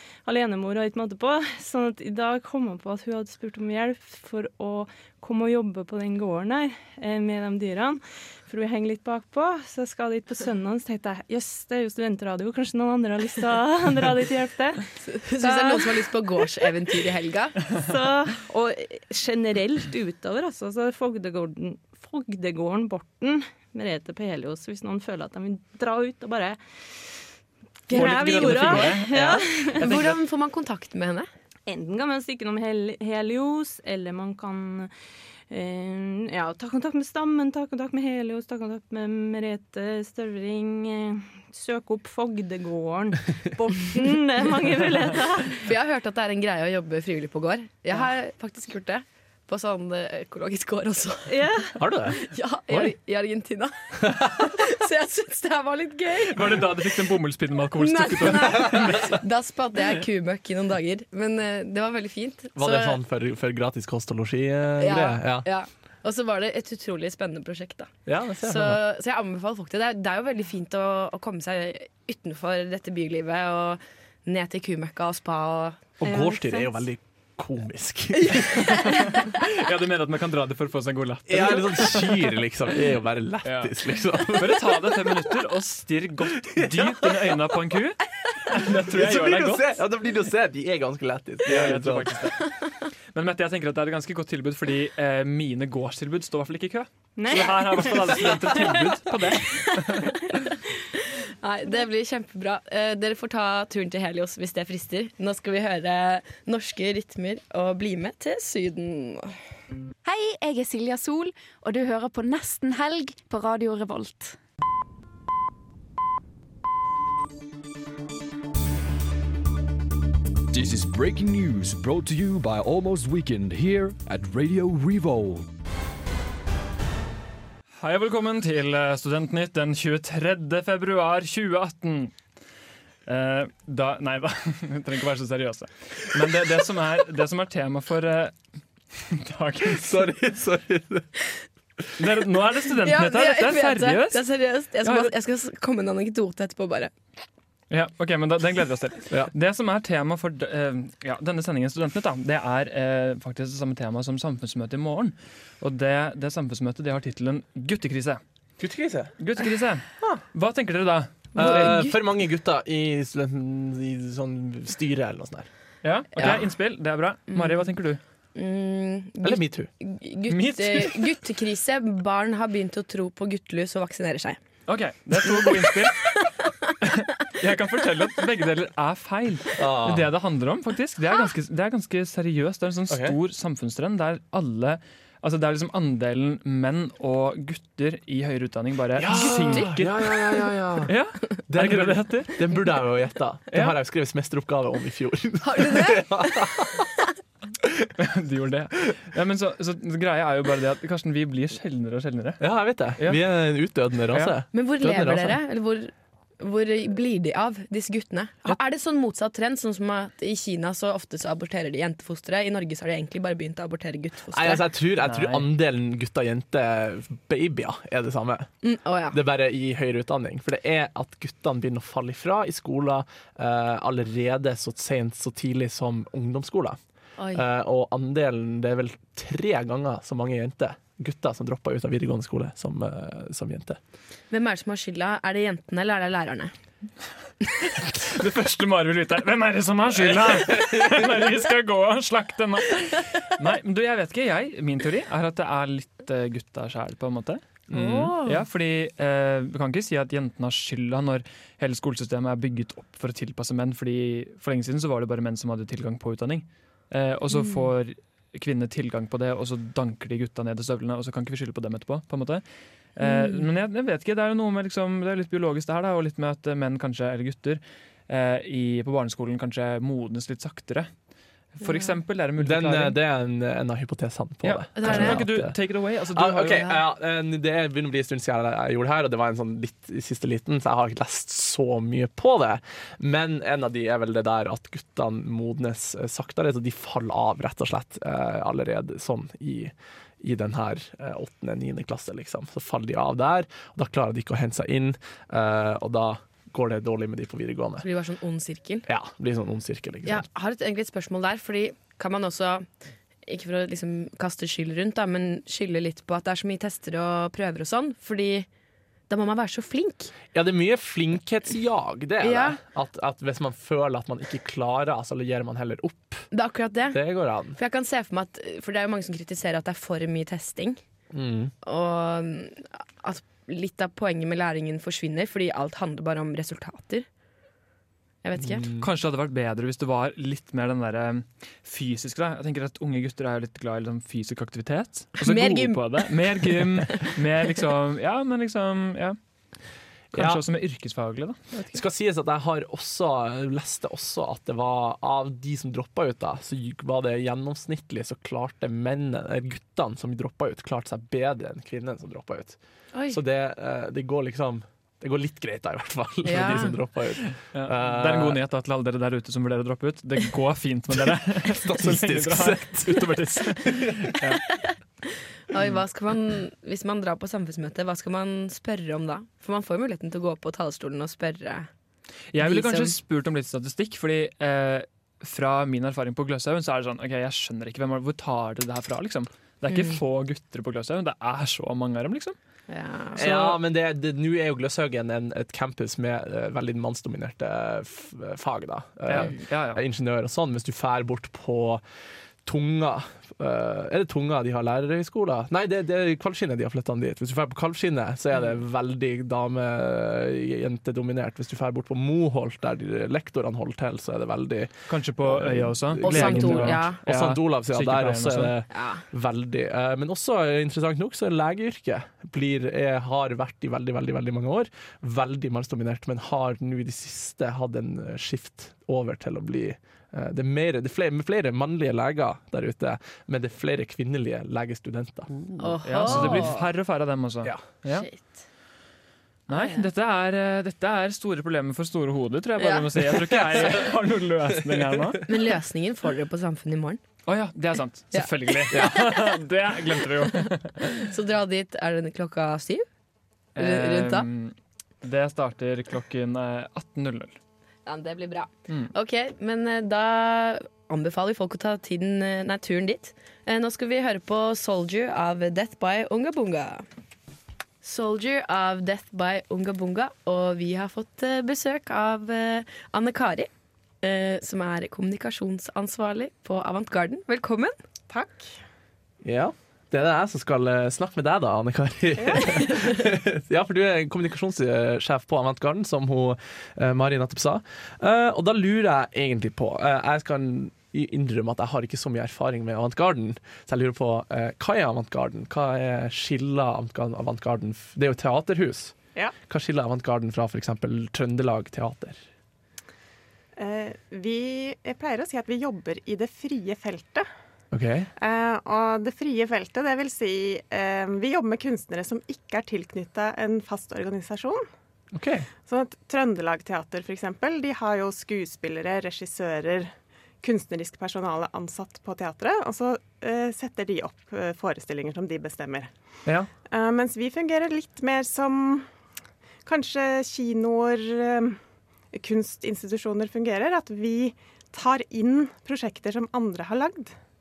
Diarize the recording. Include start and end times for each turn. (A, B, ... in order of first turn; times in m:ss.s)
0:00.2-0:14.9 A
0:15.1-0:17.7 B
0:15.4-0:16.9 A
0:17.7-0:27.2 A
0:27.9-0:30.0 A
0:27.9-0:30.1 C
0:29.8-0:31.3 B
0:31.7-0:34.9 A
0:35.5-0:45.7 A
0:45.6-0:51.4 B
0:51.3-0:51.8 A
0:51.8-0:52.9 D
0:52.1-0:56.8 B
0:54.0-0:54.5 D
0:56.3-0:59.1 C
0:57.8-1:03.0 B
1:02.6-1:05.5 D
1:04.8-1:15.9 B
1:08.1-1:08.8 D
1:16.0-1:18.8 D
1:16.1-1:16.5 A
1:18.4-1:18.7 B
1:18.7-1:22.2 C
1:21.3-1:25.0 D
1:23.4-1:23.7 C
1:24.3-1:29.8 C
1:26.4-1:27.4 D
1:28.5-1:32.1 D
1:31.4-1:32.4 C
1:33.1-1:40.3 C
1:37.2-1:38.8 A
1:39.8-1:49.3 B
1:50.0-1:54.4 E
2:00.5-2:05.5 F
2:07.8-2:12.2 C
2:13.1-2:18.4 C
2:19.0-2:19.9 C
2:19.7-2:21.1 D
2:22.0-2:24.2 C
2:22.8-2:26.9 B
2:24.8-2:25.1 C
2:27.7-2:38.2 C
2:38.6-2:39.1 D
2:39.2-2:41.4 C
2:41.4-2:45.5 D
2:41.4-2:42.0 B
2:45.8-2:48.0 C
2:46.2-2:46.4 D
2:47.3-2:47.6 B
2:48.4-2:54.4 B
2:49.2-2:49.7 D
2:50.3-2:51.0 C
2:54.7-2:56.2 C
2:55.3-2:56.0 B
2:56.8-3:10.0 C
2:59.6-3:00.1 D
3:02.9-3:03.2 D
3:09.0-3:10.9 D
3:09.2-3:09.6 B
3:10.8-3:12.4 C
3:11.5-3:16.9 D
3:13.5-3:13.8 C
3:15.4-3:16.7 B
3:18.0-3:22.4 C
3:22.4-3:25.4 D
3:23.0-3:23.2 C
3:24.5-3:34.6 B
3:34.3-3:38.5 D
3:35.0-3:35.5 C
3:38.6-3:39.2 B
3:39.1-3:46.8 D
3:47.2-3:47.4 B
3:47.3-3:53.8 D
3:54.3-3:56.5 B
3:57.8-4:22.4 C
4:00.5-4:01.0 D
4:07.7-4:08.4 D
4:17.3-4:17.6 B
4:23.0-4:30.9 C
4:23.0-4:23.5 B
4:31.6-4:33.0 C
4:31.6-4:31.9 B
4:32.4-4:35.5 D
4:34.4-4:36.8 C
4:34.8-4:35.2 B
4:36.1-4:57.9 D
4:57.8-4:58.9 B
4:58.9-5:00.3 D
5:00.1-5:02.7 B
5:03.3-5:08.5 B
5:09.1-5:10.2 B
5:10.3-5:16.3 D
5:12.2-5:12.6 B
5:16.3-5:20.8 B
5:16.9-5:17.6 D
5:21.1-5:21.5 D
5:21.6-5:27.1 B
5:28.2-5:28.7 B
5:28.4-5:28.9 D
5:28.8-5:39.2 C
5:35.2-5:37.0 B
5:40.1-5:40.4 D
5:40.1-5:41.7 C
5:41.7-5:52.6 D
5:52.9-5:53.2 B
5:53.1-5:58.4 D
5:56.2-5:56.8 B
5:57.2-6:04.4 C
6:01.0-6:04.2 D
6:05.5-6:11.7 B
6:12.3-6:22.4 C
6:12.4-6:13.0 B
6:19.7-6:20.0 B
6:22.7-6:23.4 B
6:23.2-6:31.8 D
6:23.2-6:23.6 C
6:29.1-6:29.8 C
6:32.4-7:06.6 D
6:44.9-6:48.6 C
6:46.0-6:47.0 B
6:48.7-6:49.0 B
7:05.6-7:06.6 B
7:05.8-7:08.1 C
7:07.9-7:08.3 B
7:09.5-7:15.3 C
7:09.5-7:09.8 B
7:12.6-7:12.9 B
7:13.2-7:13.8 D
7:14.5-7:15.2 D
7:15.3-7:17.0 B
7:17.3-7:20.9 C
7:18.1-7:18.9 B
7:18.7-7:19.3 D
7:20.8-7:22.9 B
7:23.6-7:27.4 C
7:23.6-7:24.3 B
7:27.9-7:36.9 B
7:37.8-7:43.5 B
7:44.0-7:47.7 B
7:48.1-7:48.6 G
7:49.2-8:09.0 D
7:52.2-7:52.6 G
8:09.5-8:12.2 D
8:13.6-8:17.3 G
8:17.7-8:18.1 D
8:18.2-8:24.7 G
8:25.1-8:25.5 D
8:25.7-8:35.9 G
8:36.7-8:38.9 G
8:39.6-8:41.6 G
8:42.1-8:47.2 G